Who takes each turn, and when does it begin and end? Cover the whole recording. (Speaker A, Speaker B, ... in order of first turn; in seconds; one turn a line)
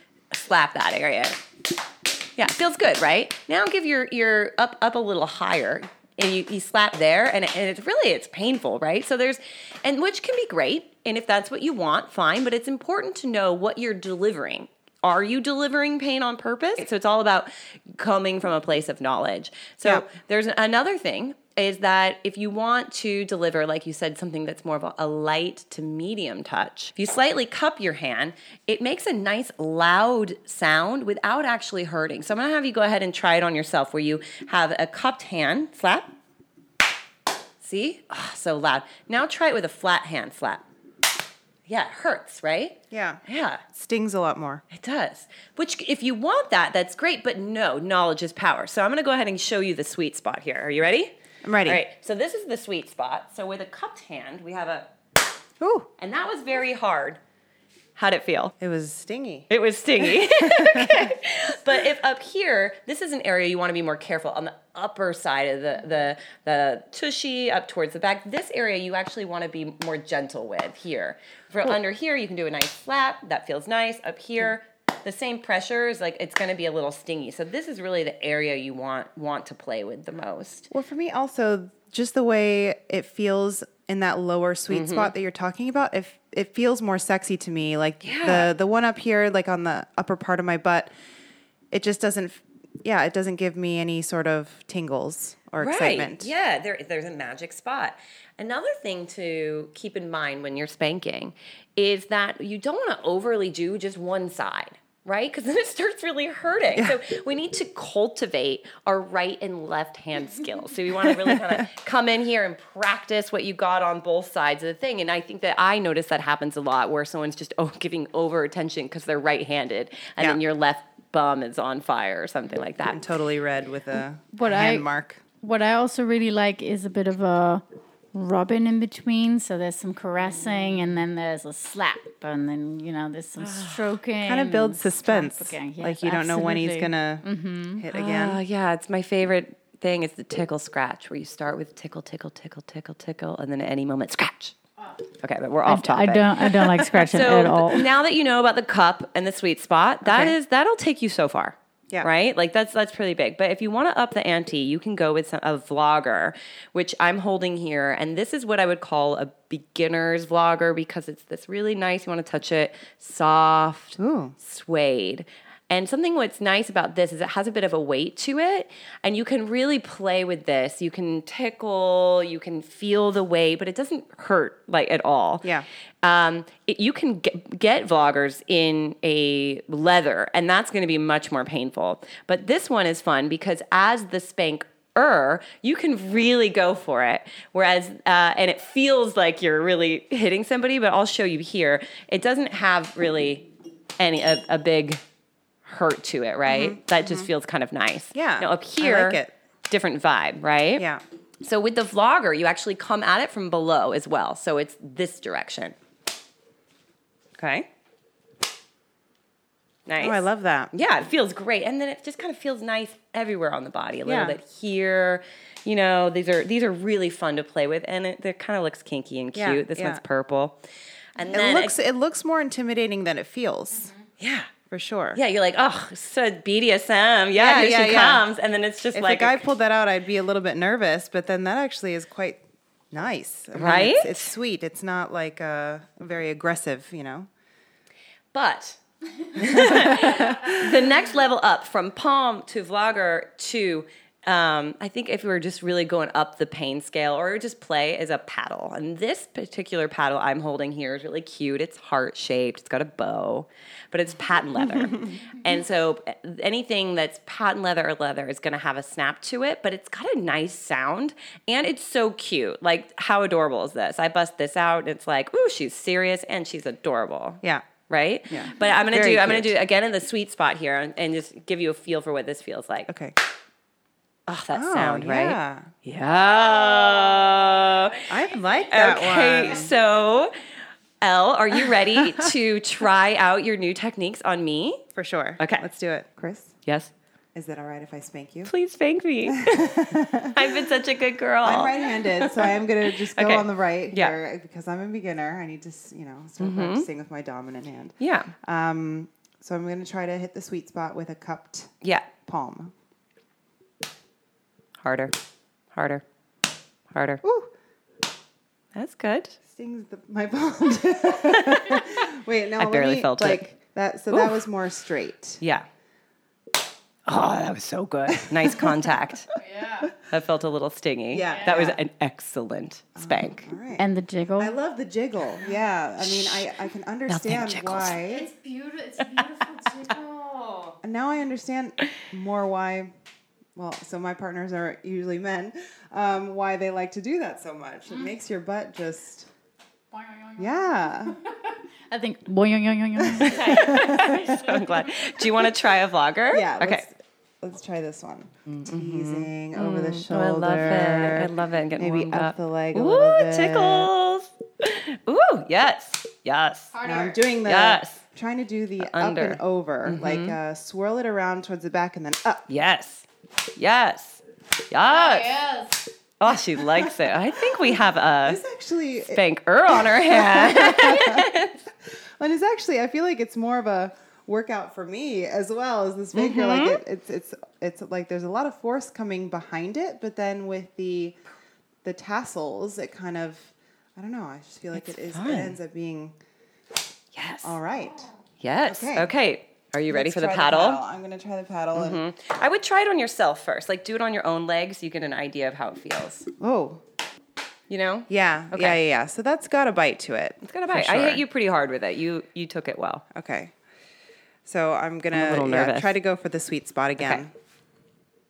Speaker A: 0.3-1.4
Speaker A: 2.4-36.1
Speaker A: 37.6-40.6
Speaker A: 41.7-43.6
Speaker B: 42.9-43.2
Speaker B: 43.7-44.6
Speaker A: 44.7-51.1
Speaker B: 51.4-51.8
Speaker A: 51.6-54.9
Speaker B: 55.6-55.9
Speaker A: 56.0-57.2
Speaker A: 58.0-58.5
Speaker B: 58.6-59.5
Speaker A: 59.5-80.7
Speaker B: 60.0-61.1
Speaker B: 80.7-90.9
Speaker A: 84.7-85.1
Speaker A: 88.0-88.5
Speaker B: 91.7-96.3
Speaker A: 95.6-123.0
Speaker B: 106.7-107.0
Speaker B: 122.9-125.2
Speaker C: 124.3-124.9
Speaker C: 125.4-137.8
Speaker A: 133.4-133.9
Speaker B: 134.2-137.2
Speaker B: 137.8-138.4
Speaker A: 137.9-144.5
Speaker A: 145.2-175.5
Speaker C: 145.6-147.9
Speaker B: 150.0-150.3
Speaker B: 164.0-164.4
Speaker A: 176.0-193.5
Speaker A: 194.0-195.0
Speaker A: 195.7-200.9
Speaker B: 196.5-197.3
Speaker B: 198.1-199.3
Speaker B: 200.8-201.0
Speaker A: 201.4-205.8
Speaker A: 207.4-207.7
Speaker A: 209.9-220.6
Speaker B: 210.0-210.7
Speaker B: 214.1-214.4
Speaker B: 219.3-220.0
Speaker A: 221.2-221.8
Speaker B: 221.2-223.9
Speaker A: 224.2-224.5
Speaker B: 224.7-225.2
Speaker A: 225.1-229.5
Speaker B: 227.3-228.2
Speaker B: 228.9-232.4
Speaker B: 232.9-237.3
Speaker A: 233.5-234.3
Speaker A: 238.3-238.8
Speaker A: 239.3-272.9
Speaker B: 239.4-240.5
Speaker B: 268.3-269.6
Speaker B: 272.9-273.1
Speaker A: 274.3-278.1
Speaker B: 274.5-275.7
Speaker B: 278.1-279.7
Speaker A: 278.7-280.3
Speaker A: 281.0-284.8
Speaker B: 284.9-286.6
Speaker A: 285.4-285.6
Speaker A: 286.6-286.9
Speaker B: 287.4-288.5
Speaker A: 288.4-294.2
Speaker B: 289.3-290.4
Speaker B: 291.4-301.7
Speaker A: 296.4-296.9
Speaker A: 298.0-298.3
Speaker A: 301.8-302.1
Speaker B: 302.2-302.7
Speaker A: 304.8-305.1
Speaker A: 305.7-306.0
Speaker A: 306.9-307.2
Speaker B: 307.2-307.5
Speaker A: 308.8-309.4
Speaker B: 309.5-315.4
Speaker A: 311.2-313.5
Speaker A: 314.1-314.4
Speaker A: 317.1-319.3
Speaker B: 318.2-318.8
Speaker C: 319.6-319.9
Speaker A: 320.1-323.5
Speaker B: 321.1-321.8
Speaker B: 323.0-323.8
Speaker C: 323.8-324.5
Speaker B: 324.4-328.3
Speaker A: 326.0-326.5
Speaker A: 327.1-328.0
Speaker C: 328.0-330.8
Speaker B: 330.8-332.9
Speaker B: 333.6-339.3
Speaker C: 339.9-344.9
Speaker B: 340.4-341.2
Speaker B: 343.1-344.1
Speaker A: 343.3-346.9
Speaker B: 346.3-353.9
Speaker A: 348.5-356.7
Speaker C: 356.7-357.2
Speaker B: 356.8-362.4
Speaker A: 357.4-358.0
Speaker A: 358.8-360.4
Speaker A: 362.5-363.1
Speaker A: 363.6-365.4
Speaker C: 364.9-365.9
Speaker A: 366.2-368.4
Speaker B: 368.2-371.3
Speaker A: 369.1-371.6
Speaker B: 372.2-381.1
Speaker A: 376.1-376.8
Speaker B: 381.8-386.1
Speaker A: 384.7-385.6
Speaker A: 387.1-387.6
Speaker B: 387.4-388.1
Speaker A: 388.4-390.8
Speaker B: 388.6-389.1
Speaker B: 389.9-392.0
Speaker A: 391.8-396.3
Speaker B: 396.4-396.8
Speaker A: 397.7-398.8
Speaker B: 398.1-401.2
Speaker A: 400.5-403.0
Speaker B: 403.1-403.5
Speaker B: 404.4-407.3
Speaker A: 405.1-405.9
Speaker A: 407.0-407.2